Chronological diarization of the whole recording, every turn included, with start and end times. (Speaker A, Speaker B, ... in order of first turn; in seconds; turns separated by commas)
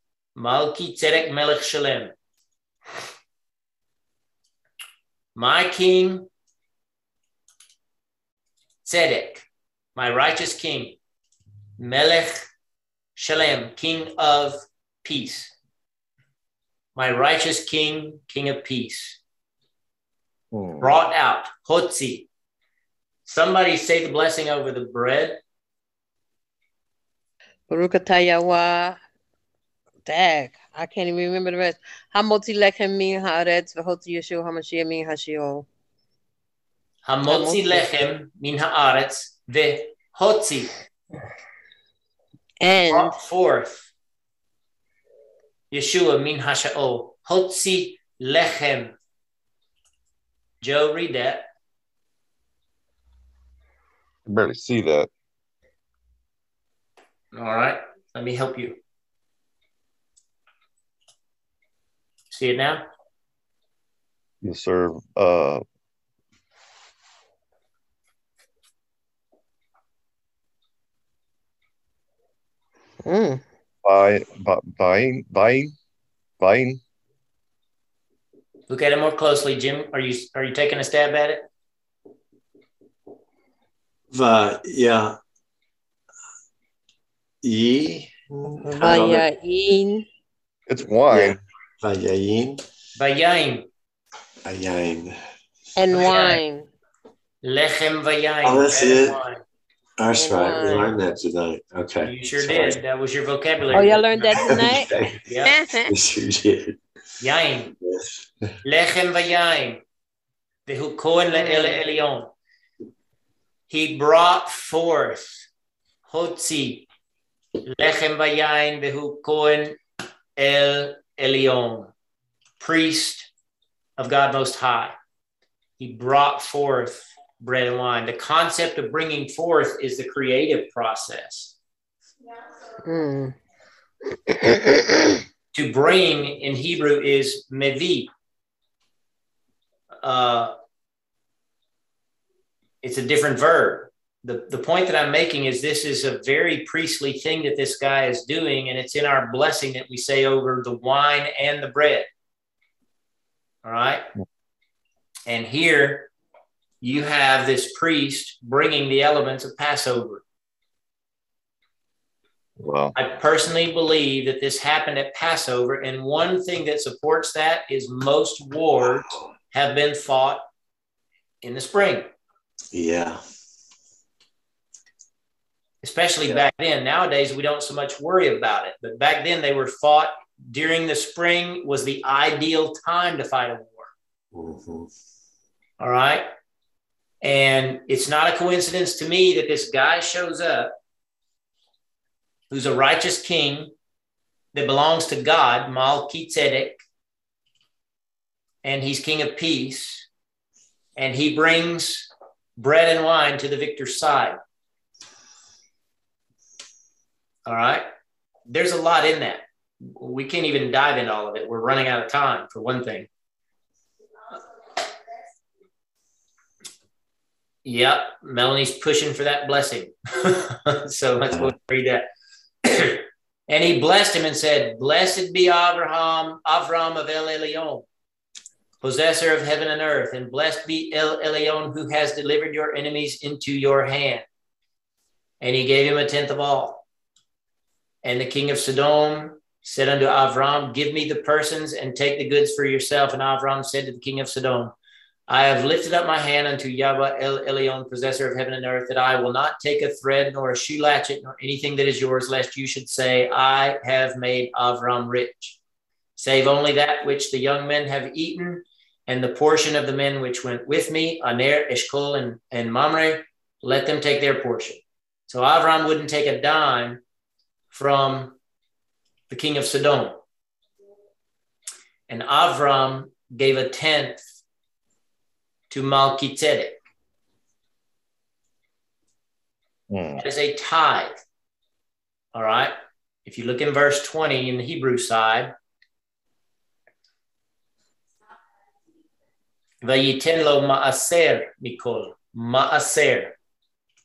Speaker A: 0.3-2.1, Speaker A: 5.3-6.3, Speaker A: 8.8-9.4, Speaker A: 9.9-11.0, Speaker A: 11.8-12.5, Speaker A: 13.2-15.5, Speaker A: 16.9-19.2, Speaker B: 20.5-21.0, Speaker A: 20.8-22.3, Speaker A: 23.2-25.4, Speaker C: 27.7-29.0, Speaker C: 30.0-35.7, Speaker A: 37.0-40.7, Speaker C: 37.3-37.8, Speaker C: 42.6-43.1, Speaker A: 42.8-43.9, Speaker A: 45.7-49.0, Speaker A: 50.6-51.5, Speaker B: 54.2-55.1, Speaker A: 57.3-58.8, Speaker A: 62.3-62.8, Speaker B: 64.4-65.6, Speaker C: 73.0-73.4, Speaker B: 73.8-75.7, Speaker B: 76.4-76.8, Speaker A: 78.7-81.4, Speaker D: 84.1-85.2, Speaker D: 87.4-89.2, Speaker C: 88.6-90.0, Speaker B: 90.7-91.4, Speaker D: 91.1-92.6, Speaker A: 93.0-93.7, Speaker D: 94.4-95.2, Speaker C: 95.8-96.7, Speaker A: 95.9-96.4, Speaker A: 97.4-99.4, Speaker D: 98.4-99.2, Speaker D: 100.0-102.8, Speaker C: 100.2-100.9, Speaker A: 100.6-100.9, Speaker A: 102.0-104.0, Speaker C: 103.7-104.9, Speaker D: 104.3-105.2, Speaker A: 105.2-105.5, Speaker C: 105.4-105.9, Speaker D: 105.8-106.8, Speaker A: 107.2-107.7, Speaker D: 107.8-108.3, Speaker A: 108.6-109.8, Speaker A: 110.7-112.3, Speaker C: 111.3-111.8, Speaker A: 113.7-115.5, Speaker A: 116.1-116.9, Speaker A: 117.7-119.8, Speaker A: 120.4-121.9, Speaker A: 122.6-123.3, Speaker A: 124.0-125.0, Speaker A: 125.8-131.5, Speaker C: 132.8-133.3, Speaker C: 134.3-135.2, Speaker A: 135.5-138.1, Speaker A: 140.0-140.5, Speaker A: 142.8-152.1, Speaker A: 153.6-154.0, Speaker A: 155.3-156.1, Speaker A: 156.8-160.2, Speaker B: 162.6-162.9, Speaker A: 162.9-170.4, Speaker A: 171.4-172.1, Speaker D: 172.7-173.2, Speaker A: 175.8-183.9, Speaker D: 184.3-184.9, Speaker A: 185.8-186.3, Speaker A: 187.2-190.7, Speaker A: 192.5-193.7, Speaker A: 194.5-196.8, Speaker A: 198.6-200.1, Speaker A: 201.0-204.4, Speaker A: 207.4-207.8, Speaker A: 208.5-213.1, Speaker A: 217.6-222.1, Speaker A: 222.6-227.8, Speaker A: 228.8-234.2, Speaker A: 235.4-236.8, Speaker A: 238.0-244.7, Speaker A: 245.3-255.6, Speaker A: 256.2-267.0, Speaker A: 267.7-268.4, Speaker A: 269.3-270.2, Speaker A: 272.1-274.2, Speaker A: 275.7-276.8, Speaker B: 279.9-280.2, Speaker A: 280.2-281.2, Speaker A: 282.3-282.7, Speaker A: 283.2-285.5, Speaker A: 289.8-293.4